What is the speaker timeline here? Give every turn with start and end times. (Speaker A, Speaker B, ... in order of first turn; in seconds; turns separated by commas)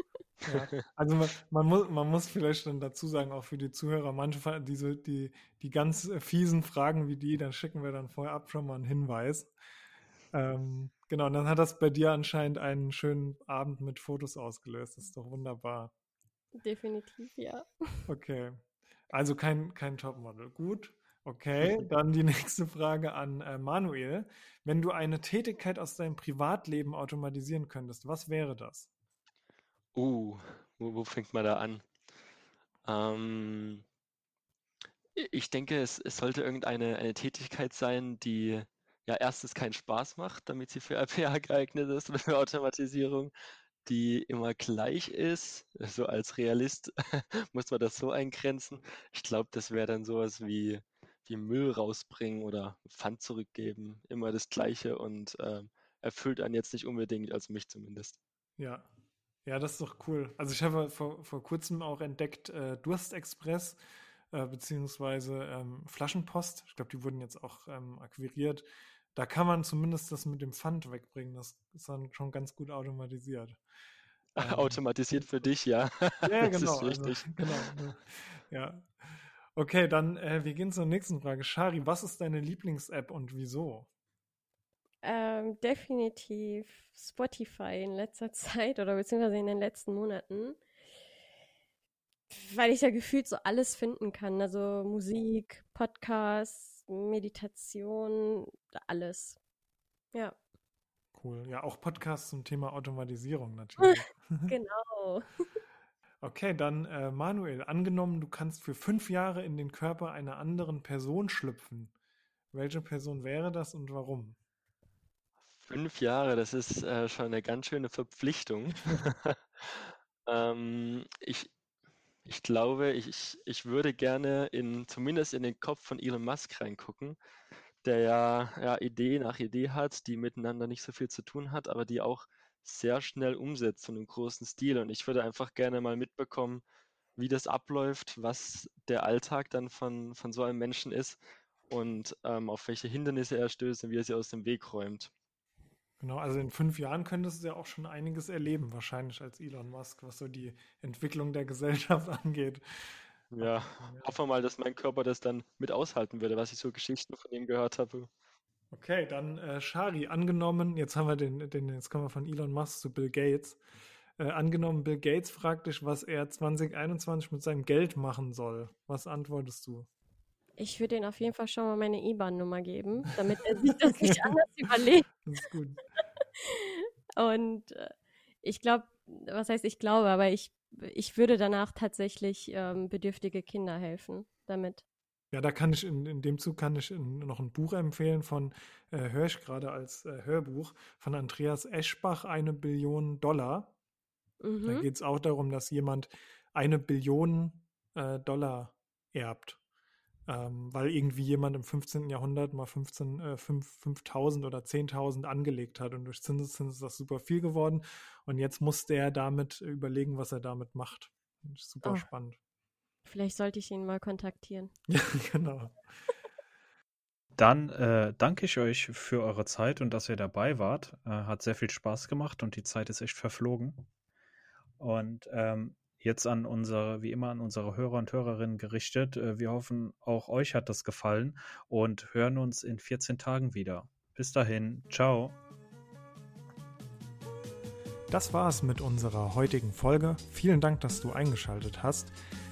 Speaker A: 0.5-9.5, Speaker A: 10.3-15.9, Speaker B: 16.6-18.0, Speaker A: 18.1-28.9, Speaker C: 29.9-31.8, Speaker C: 32.8-33.8, Speaker C: 35.1-43.3, Speaker C: 43.8-58.2, Speaker A: 58.6-58.9, Speaker A: 59.4-73.6, Speaker C: 74.3-77.8, Speaker A: 74.4-74.8, Speaker A: 76.2-83.9, Speaker B: 85.0-90.6, Speaker B: 92.3-99.4, Speaker A: 101.1-104.5, Speaker B: 103.8-105.3, Speaker A: 106.2-111.9, Speaker A: 112.5-114.4, Speaker C: 115.6-121.5, Speaker C: 122.2-127.2, Speaker C: 127.8-136.6, Speaker C: 137.2-145.1, Speaker A: 146.0-154.1, Speaker C: 153.3-158.1, Speaker A: 158.7-163.6, Speaker A: 164.2-169.9, Speaker B: 170.6-175.1, Speaker A: 173.8-174.5, Speaker A: 175.1-175.8, Speaker B: 176.4-184.8, Speaker A: 185.3-193.7, Speaker B: 194.4-194.9, Speaker A: 194.6-199.6, Speaker A: 200.3-212.4, Speaker B: 213.0-214.7, Speaker A: 214.9-215.8, Speaker D: 217.3-223.9, Speaker D: 224.8-235.4, Speaker A: 238.1-242.1